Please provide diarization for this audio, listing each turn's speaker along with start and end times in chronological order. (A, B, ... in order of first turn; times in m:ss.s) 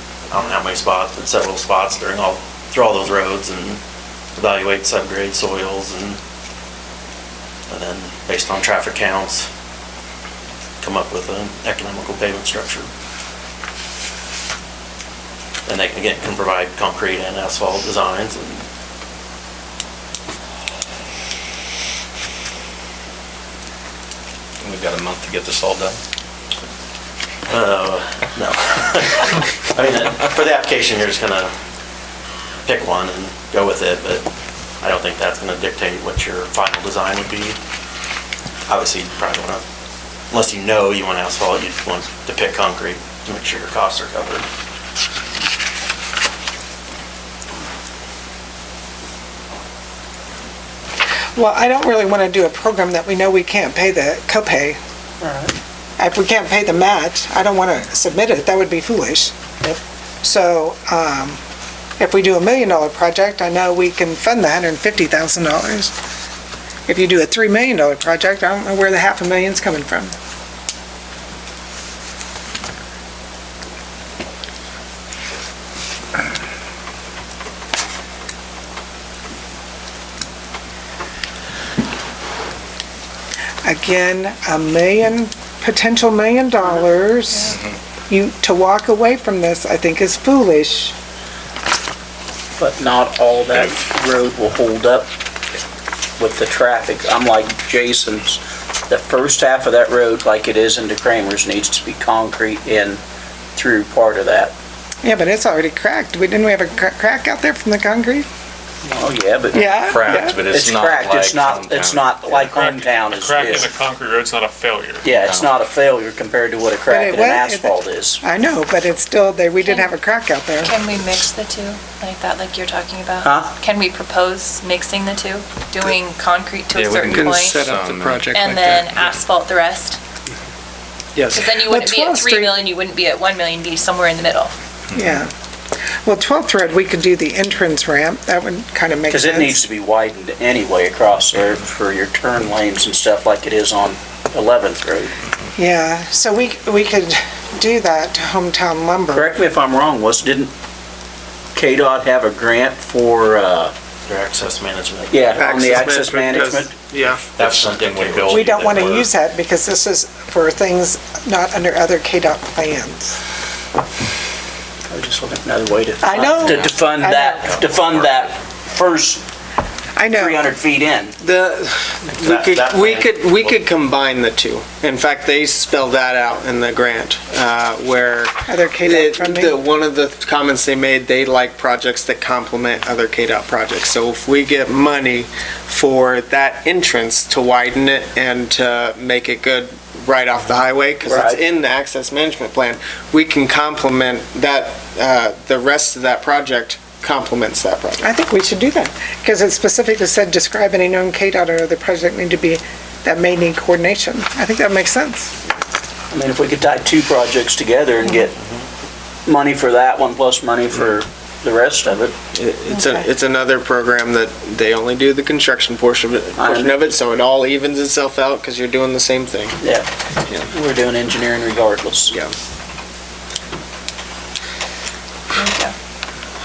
0:00.3-0:03.8 A
0:04.4-0:06.2 A
0:07.7-0:09.5 A
0:10.8-0:12.9 A
0:15.7-0:18.6 A
0:24.6-0:26.0 B
0:27.5-0:31.5 A
0:32.7-0:34.3 A
0:34.8-0:37.6 A
0:38.7-0:39.6 A
0:40.3-0:44.5 A
0:51.4-0:54.8 C
0:55.2-0:55.6 D
0:56.0-0:59.3 C
1:00.2-1:01.4 C
1:02.0-1:05.9 C
1:06.9-1:10.1 C
1:23.6-1:27.6 C
1:28.1-1:30.9 C
1:32.6-1:35.1 D
1:36.2-1:43.0 D
1:43.6-1:44.5 D
1:45.0-1:48.3 C
1:48.9-1:49.9 D
1:49.5-1:50.4 C
1:49.8-1:52.5 B
1:50.4-1:53.8 D
1:52.5-1:55.1 E
1:55.0-1:58.2 D
1:55.2-1:55.5 B
1:56.9-2:00.8 C
1:59.6-1:59.9 F
2:00.6-2:07.6 F
2:03.2-2:03.5 D
2:06.8-2:08.9 G
2:07.0-2:08.4 B
2:08.3-2:10.0 F
2:11.2-2:11.5 G
2:11.3-2:14.5 F
2:11.6-2:12.6 C
2:15.0-2:15.3 C
2:16.0-2:19.6 C
2:19.1-2:25.1 D
2:25.6-2:29.3 C
2:29.1-2:30.5 D
2:31.5-2:33.7 D
2:34.1-2:35.4 A
2:35.1-2:36.8 D
2:35.4-2:37.2 G
2:37.2-2:39.1 B
2:37.4-2:39.0 A
2:38.3-2:43.2 C
2:44.9-2:49.2 D
2:46.0-2:47.6 C
2:50.0-2:50.4 C
2:50.1-2:51.2 D
2:51.2-3:18.1 G
2:52.2-2:53.6 A
2:58.5-2:59.6 C
3:11.0-3:11.4 D
3:18.0-3:25.3 C
3:26.1-3:28.4 D
3:29.3-3:32.1 D
3:32.3-3:39.6 G
3:32.7-3:33.0 C
3:36.4-3:36.9 D
3:39.6-3:39.9 D
3:40.5-3:42.2 D
3:45.3-3:45.7 F